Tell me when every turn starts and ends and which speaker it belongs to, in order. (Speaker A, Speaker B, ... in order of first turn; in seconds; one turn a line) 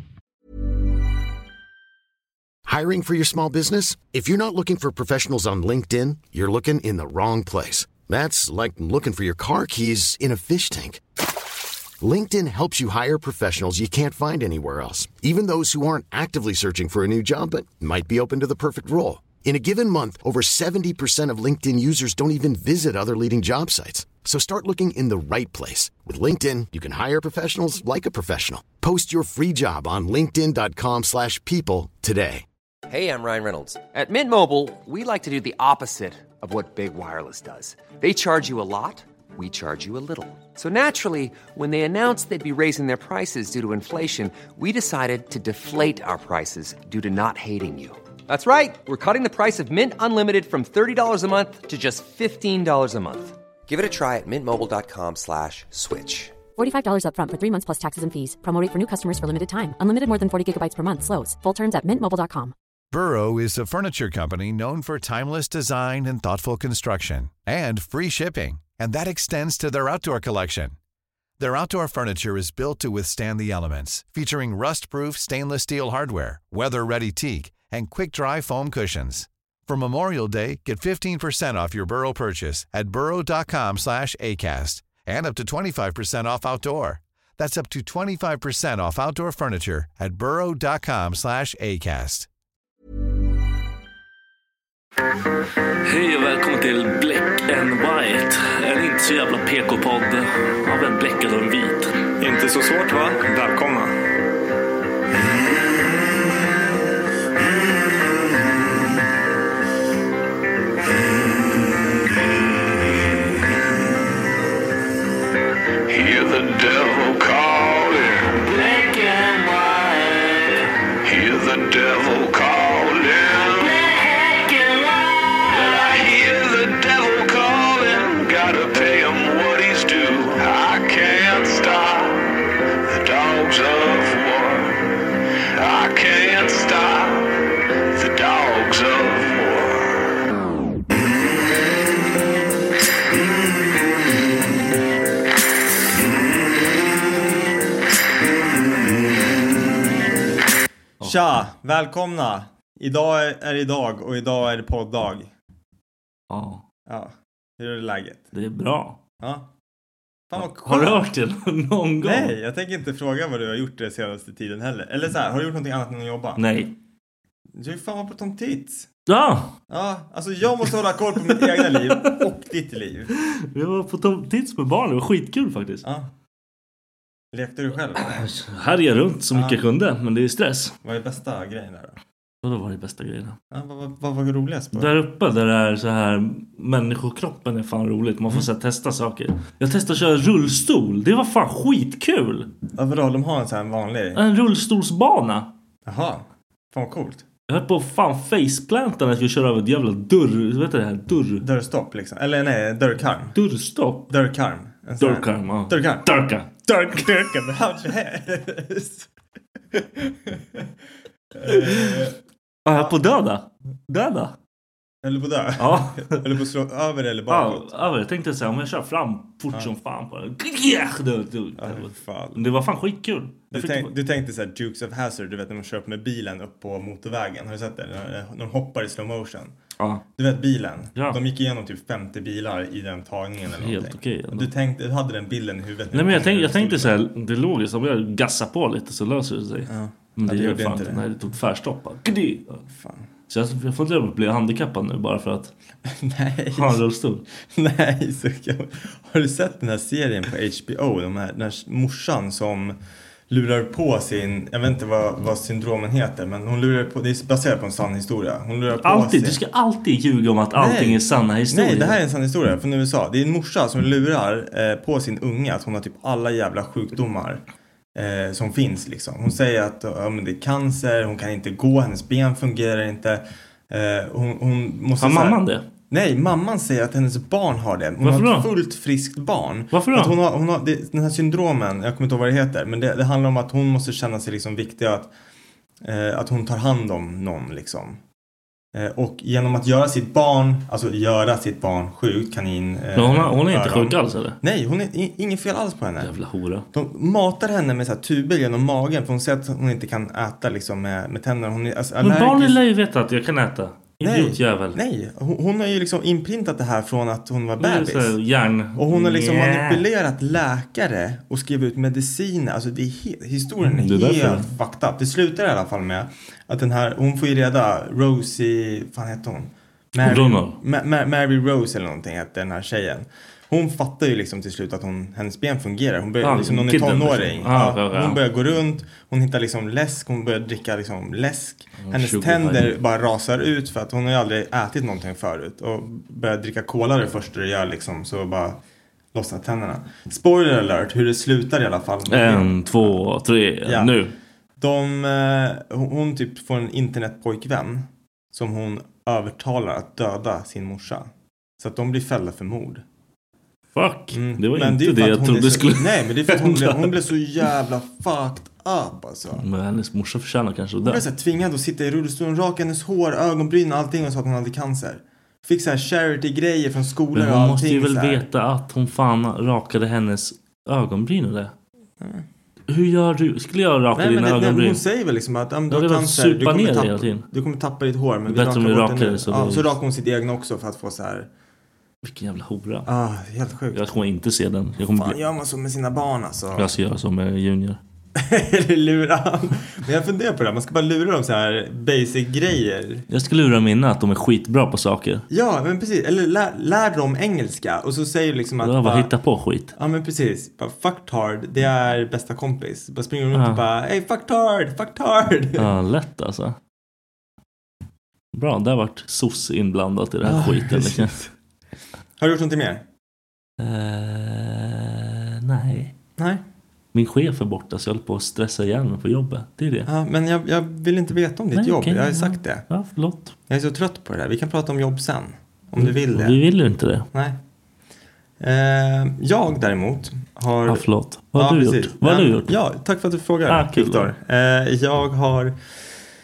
Speaker A: 2.6-11.0
Speaker A: 12.0-32.5
Speaker B: 32.9-56.4
Speaker C: 56.6-62.5
Speaker D: 62.9-70.8
Speaker D: 71.4-92.3
Speaker E: 95.8-101.9
Speaker F: 102.2-104.0
Speaker G: 115.9-132.3
Speaker G: 132.9-134.8
Speaker G: 135.5-137.4
Speaker G: 137.9-140.1
Speaker F: 151.0-155.3
Speaker E: 156.3-156.6
Speaker F: 156.9-158.3
Speaker E: 158.3-159.0
Speaker F: 159.2-159.5
Speaker F: 160.3-161.1
Speaker E: 160.3-162.3
Speaker F: 162.0-166.4
Speaker E: 166.4-166.7
Speaker F: 167.6-168.9
Speaker E: 169.1-169.6
Speaker F: 169.7-173.1
Speaker E: 171.4-172.2
Speaker E: 173.2-175.8
Speaker F: 177.3-178.2
Speaker E: 178.0-180.7
Speaker F: 179.3-179.6
Speaker F: 180.8-182.0
Speaker E: 182.4-183.4
Speaker F: 183.5-184.9
Speaker E: 184.8-192.5
Speaker F: 192.7-194.2
Speaker E: 194.1-195.5
Speaker F: 195.8-197.2
Speaker E: 197.5-201.4
Speaker F: 201.4-203.3
Speaker E: 203.3-204.1
Speaker F: 204.1-206.1
Speaker E: 205.0-207.1
Speaker F: 206.6-209.1
Speaker F: 209.7-210.7
Speaker F: 211.3-212.2
Speaker E: 211.4-212.1
Speaker E: 212.7-214.3
Speaker F: 215.0-217.9
Speaker E: 215.6-216.4
Speaker E: 217.3-223.9
Speaker F: 221.6-222.4
Speaker F: 223.5-229.5
Speaker F: 230.2-236.9
Speaker E: 233.6-234.5
Speaker E: 235.9-242.6
Speaker F: 239.7-241.0
Speaker F: 242.7-243.0
Speaker E: 243.3-245.5
Speaker F: 245.8-246.8
Speaker E: 246.5-247.2
Speaker F: 247.5-252.8
Speaker F: 253.3-259.4
Speaker E: 258.8-262.0
Speaker F: 260.5-267.4
Speaker F: 267.9-275.4
Speaker E: 275.0-275.6
Speaker F: 275.9-285.1
Speaker E: 278.0-278.5
Speaker E: 279.7-280.1
Speaker F: 285.8-288.0
Speaker F: 288.7-296.1
Speaker E: 292.9-294.4
Speaker E: 296.0-296.7
Speaker F: 296.7-302.6
Speaker E: 302.0-304.8
Speaker F: 304.0-308.1
Speaker E: 307.6-309.8
Speaker F: 308.7-338.6
Speaker E: 313.6-314.5
Speaker E: 320.0-320.6
Speaker E: 326.2-328.2
Speaker E: 331.8-332.8
Speaker F: 339.1-343.0
Speaker E: 342.1-344.1
Speaker F: 343.6-343.9
Speaker F: 344.6-352.8
Speaker E: 353.7-356.9
Speaker F: 354.1-359.4
Speaker E: 359.4-361.0
Speaker F: 360.8-368.2
Speaker E: 367.1-371.5
Speaker E: 372.7-374.8
Speaker F: 373.9-381.3
Speaker E: 375.7-377.2
Speaker E: 378.3-379.7
Speaker E: 382.0-382.9
Speaker F: 382.9-383.9
Speaker E: 383.7-385.2
Speaker F: 384.8-386.7
Speaker E: 386.5-387.8
Speaker F: 388.1-393.0
Speaker E: 393.1-395.2
Speaker F: 395.3-399.1
Speaker E: 398.6-399.7
Speaker F: 399.7-405.7
Speaker E: 403.3-403.6
Speaker E: 405.6-406.6
Speaker E: 408.3-411.2
Speaker F: 410.2-411.3
Speaker F: 412.2-412.8
Speaker E: 413.6-415.9
Speaker F: 416.2-416.4
Speaker E: 416.9-419.9
Speaker F: 419.9-422.6
Speaker E: 421.5-423.3
Speaker F: 423.5-426.4
Speaker E: 425.8-427.1
Speaker F: 427.1-427.4
Speaker F: 428.4-435.6
Speaker E: 430.7-432.5
Speaker E: 433.5-434.1